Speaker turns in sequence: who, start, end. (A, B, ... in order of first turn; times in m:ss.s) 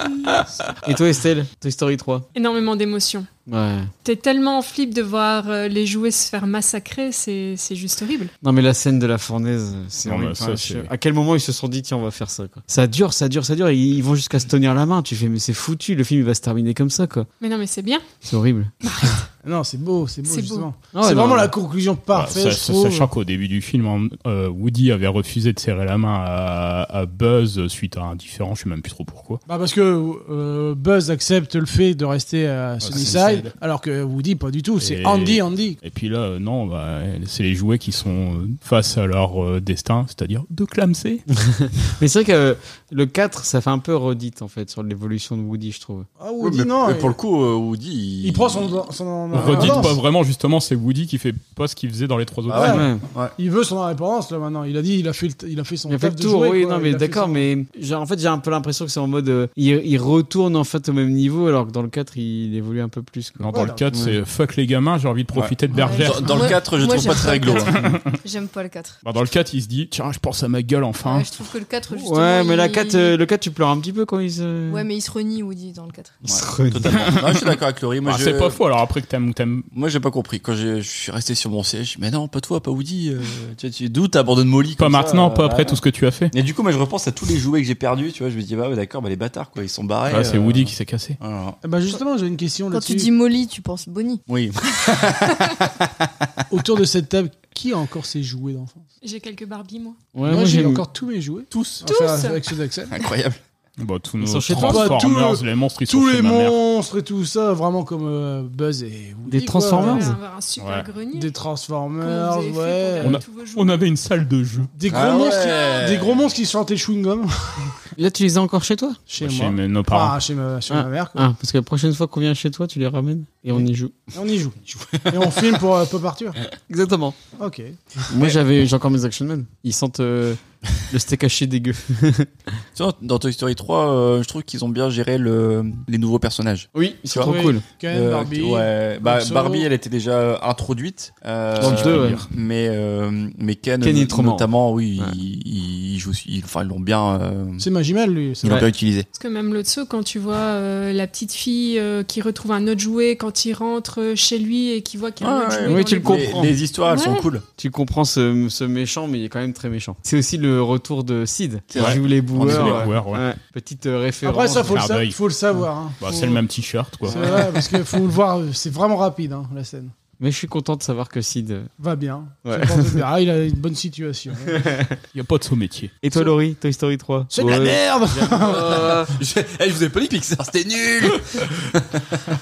0:00.8-0:02.3 A
0:02.4-0:03.3 B
0:03.5-0:03.9 A
0:04.0-0:08.3 B
0:08.4-0:17.3 A
0:10.0-0:10.9 C
0:17.4-0:18.1 B
0:18.2-0:18.7 A
0:18.8-0:19.3 B
0:19.4-0:23.1 D
0:20.3-0:20.7 B
0:20.9-0:21.5 A
0:22.1-0:29.4 C
0:29.4-0:35.8 D
0:32.8-0:33.5 C
0:34.8-0:41.2 C
0:41.4-0:46.1 A
0:46.2-0:47.2 D
0:46.4-0:49.9 E
0:48.2-0:50.0 D
0:49.3-0:52.8 C
0:52.5-0:53.3 E
0:52.5-0:57.4 D
0:52.6-0:53.0 A
0:55.9-1:04.2 A
1:03.4-1:06.6 C
1:03.5-1:04.0 D
1:05.3-1:07.9 E
1:05.7-1:09.0 F
1:07.7-1:08.2 C
1:09.0-1:11.3 C
1:11.0-1:13.2 F
1:12.0-1:14.9 A
1:14.7-1:16.2 F
1:16.2-1:18.6 E
1:16.2-1:17.1 A
1:18.0-1:19.7 C
1:19.7-1:25.8 E
1:24.8-1:26.3 C
1:26.3-1:31.6 E
1:30.1-1:31.2 C
1:31.6-1:33.1 D
1:32.7-1:34.2 F
1:34.3-1:36.4 E
1:36.5-1:38.8 D
1:39.0-1:40.0 B
1:40.2-1:40.8 A
1:40.3-1:43.0 D
1:41.5-1:41.8 E
1:41.8-1:42.4 B
1:42.9-1:43.4 E
1:43.8-1:46.6 C
1:44.2-1:45.0 A
1:44.5-1:50.1 D
1:49.3-1:50.2 A
1:49.8-1:51.3 B
1:50.6-1:50.9 C
1:51.1-1:53.2 D
1:52.0-1:53.9 B
1:53.0-1:54.7 C
1:54.7-1:57.7 D
1:54.9-1:56.3 E
1:58.0-1:59.0 A
1:59.1-2:01.3 D
1:59.2-2:00.2 C
2:00.7-2:03.9 A
2:03.6-2:06.4 D
2:04.7-2:05.5 E
2:06.7-2:07.2 A
2:07.4-2:08.0 D
2:08.1-2:12.3 A
2:12.8-2:17.3 E
2:16.7-2:17.6 A
2:17.2-2:19.7 D
2:17.9-2:27.7 E
2:21.6-2:22.2 A
2:21.6-2:22.2 C
2:23.8-2:25.2 A
2:27.6-2:28.7 D
2:28.4-2:29.1 E
2:29.2-2:37.3 B
2:35.2-2:37.4 E
2:35.6-2:36.6 A
2:37.6-2:44.8 A
2:41.7-2:42.9 E
2:41.8-2:43.2 C
2:44.2-2:46.4 D
2:44.7-2:45.2 C
2:46.0-2:47.2 C
2:47.0-2:49.9 D
2:47.1-2:47.7 A
2:50.2-2:51.7 A
2:51.8-2:54.7 D
2:52.4-2:53.0 A
2:54.5-2:55.0 A
2:55.1-2:56.0 C
2:56.0-2:59.1 A
2:57.3-2:59.0 D
2:58.3-3:02.2 E